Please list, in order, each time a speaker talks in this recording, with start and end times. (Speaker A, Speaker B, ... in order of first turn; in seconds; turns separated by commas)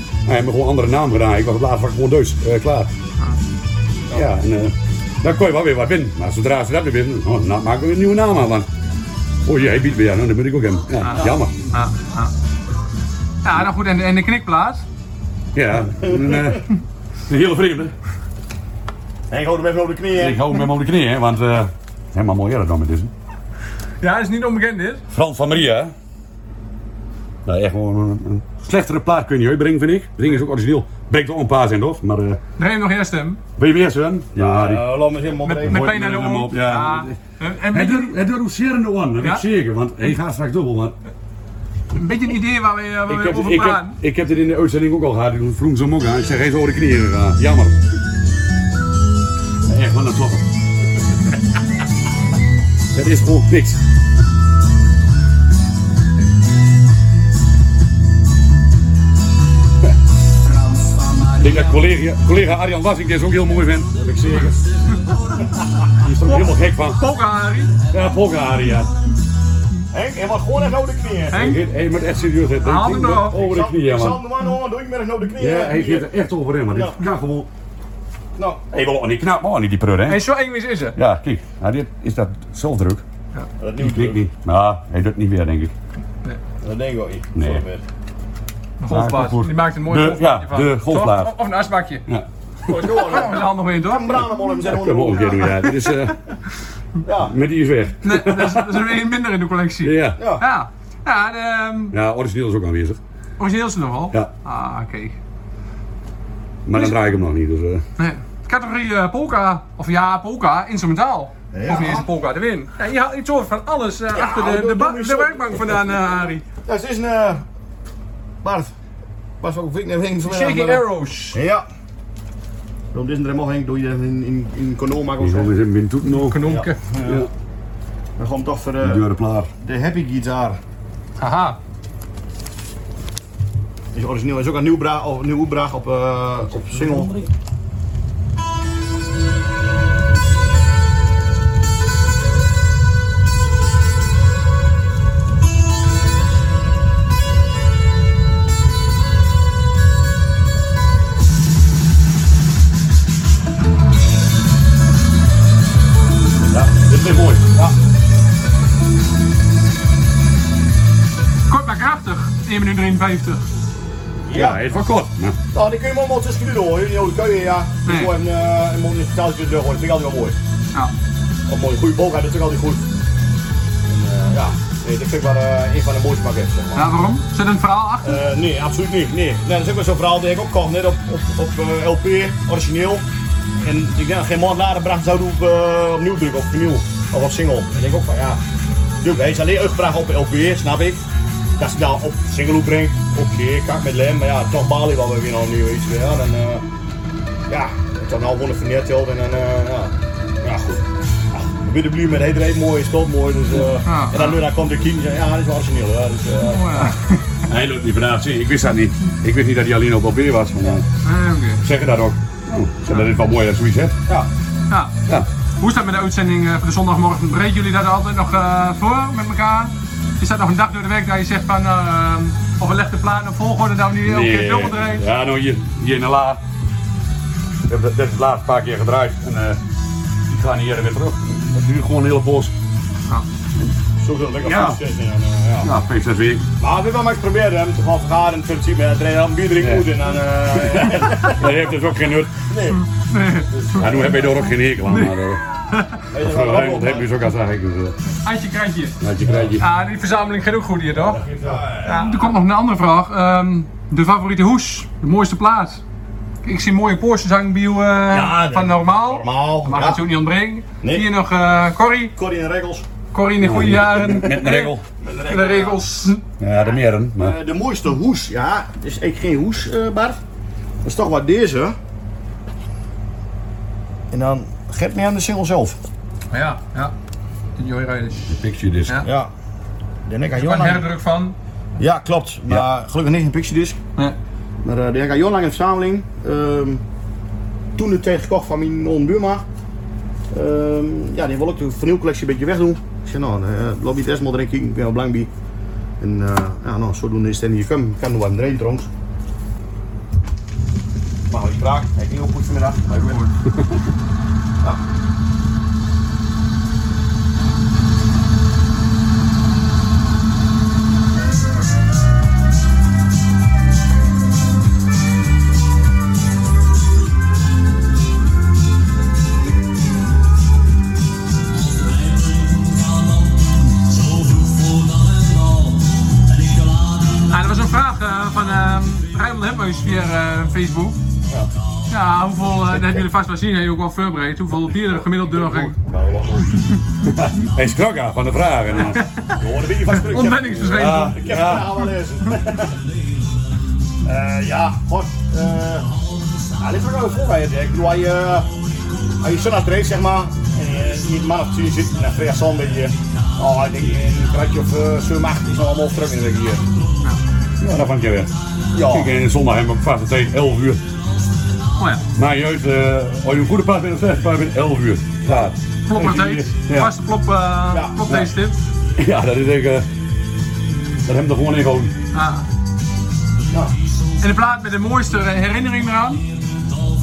Speaker A: 0.3-2.9, Speaker A: 4.1-8.7, Speaker A: 9.4-11.6, Speaker B: 11.1-12.3, Speaker B: 13.4-14.8, Speaker A: 15.5-16.7, Speaker A: 17.3-17.9, Speaker C: 19.3-20.5, Speaker A: 20.2-23.1, Speaker B: 24.0-25.0, Speaker A: 25.1-25.9, Speaker A: 27.4-32.4, Speaker B: 32.6-33.4, Speaker A: 33.6-34.9, Speaker C: 34.3-36.0, Speaker B: 35.4-38.1, Speaker A: 35.6-37.2, Speaker A: 37.7-41.0, Speaker B: 42.0-44.0, Speaker A: 43.1-47.8, Speaker A: 49.7-50.5, Speaker A: 52.9-53.8, Speaker A: 61.4-64.6, Speaker A: 66.0-67.0, Speaker B: 66.2-67.8, Speaker A: 67.9-68.9, Speaker C: 69.9-71.5, Speaker B: 71.3-71.6, Speaker A: 71.3-74.2, Speaker B: 72.6-73.4, Speaker C: 73.3-76.1, Speaker A: 75.4-77.5, Speaker C: 76.7-77.0, Speaker C: 78.4-78.6, Speaker A: 78.7-80.3, Speaker B: 80.1-81.0, Speaker A: 80.9-83.0, Speaker C: 83.6-84.3, Speaker A: 83.8-85.7, Speaker C: 86.6-87.8, Speaker A: 87.4-87.6, Speaker B: 88.8-92.0, Speaker A: 88.9-91.3, Speaker C: 92.7-95.7, Speaker B: 92.7-94.2, Speaker A: 94.7-96.2, Speaker C: 97.0-97.3, Speaker A: 97.3-98.9, Speaker B: 98.0-102.0, Speaker A: 99.8-100.2, Speaker C: 100.2-100.5, Speaker A: 101.9-103.0, Speaker B: 103.4-105.2, Speaker A: 106.7-107.8, Speaker B: 108.0-116.4, Speaker C: 111.5-112.1, Speaker C: 114.1-116.0, Speaker C: 116.7-117.5, Speaker C: 118.4-118.7, Speaker C: 119.4-121.7, Speaker B: 120.2-121.4, Speaker C: 122.9-125.5, Speaker A: 125.2-126.4, Speaker B: 126.1-126.8, Speaker C: 126.5-127.3, Speaker A: 127.0-127.3, Speaker C: 128.2-129.0, Speaker A: 128.8-129.5, Speaker C: 129.6-130.6, Speaker B: 131.2-131.6, Speaker C: 133.9-137.1, Speaker A: 136.5-137.3, Speaker A: 156.7-157.5, Speaker B: 161.5-163.4, Speaker C: 164.3-164.6, Speaker A: 164.3-165.4, Speaker C: 165.5-170.4, Speaker B: 167.9-168.1, Speaker C: 171.5-172.8, Speaker C: 173.9-176.9, Speaker B: 176.8-178.2, Speaker C: 178.0-183.1, Speaker C: 183.6-188.4, Speaker C: 189.0-191.0, Speaker C: 191.6-196.7, Speaker C: 197.5-206.9, Speaker B: 203.6-204.4, Speaker B: 206.5-207.2, Speaker A: 207.5-210.8, Speaker B: 211.0-211.6, Speaker A: 211.6-214.0, Speaker B: 215.6-225.0, Speaker A: 224.0-226.4, Speaker A: 227.7-229.6, Speaker A: 230.3-232.5, Speaker C: 234.0-235.7, Speaker A: 234.4-234.8, Speaker A: 235.6-236.5, Speaker C: 236.6-241.7, Speaker A: 239.6-239.9, Speaker A: 240.7-242.3, Speaker C: 242.4-242.8, Speaker B: 242.8-244.2, Speaker C: 243.5-244.4, Speaker A: 243.8-245.4, Speaker B: 244.8-245.2, Speaker B: 245.7-246.0, Speaker C: 246.1-247.1, Speaker A: 246.1-248.0, Speaker B: 248.2-249.0, Speaker A: 249.0-249.7, Speaker B: 249.6-251.2, Speaker A: 251.1-251.6, Speaker C: 251.4-252.1, Speaker B: 251.8-255.8, Speaker B: 256.4-262.1, Speaker C: 258.1-260.0, Speaker C: 260.8-261.1, Speaker C: 262.1-262.9, Speaker B: 263.1-266.2, Speaker A: 263.4-264.8, Speaker C: 265.0-265.8, Speaker A: 266.4-267.4, Speaker C: 267.2-270.2, Speaker C: 270.8-271.8, Speaker C: 274.1-275.8, Speaker B: 276.3-276.9, Speaker B: 277.6-278.3, Speaker A: 278.3-279.0, Speaker C: 279.0-279.3, Speaker C: 280.1-280.9, Speaker B: 280.4-281.4, Speaker C: 281.8-283.8, Speaker C: 284.6-286.8, Speaker C: 287.8-289.4, Speaker C: 290.3-295.3, Speaker C: 296.0-298.9, Speaker C: 301.3-303.3, Speaker B: 303.1-303.3, Speaker B: 327.3-331.0, Speaker B: 331.9-335.7, Speaker C: 335.2-336.6, Speaker A: 337.1-339.1, Speaker B: 338.8-339.4, Speaker C: 339.3-342.8, Speaker B: 339.9-341.2, Speaker A: 340.7-341.7, Speaker C: 344.1-345.9, Speaker C: 346.6-348.5, Speaker C: 349.2-356.7, Speaker A: 357.6-360.8, Speaker C: 358.7-359.1, Speaker B: 361.8-362.0, Speaker A: 362.2-366.9, Speaker B: 365.9-368.6, Speaker C: 367.7-368.0, Speaker A: 369.0-369.9, Speaker A: 371.1-371.9, Speaker B: 372.1-372.5, Speaker B: 374.2-376.2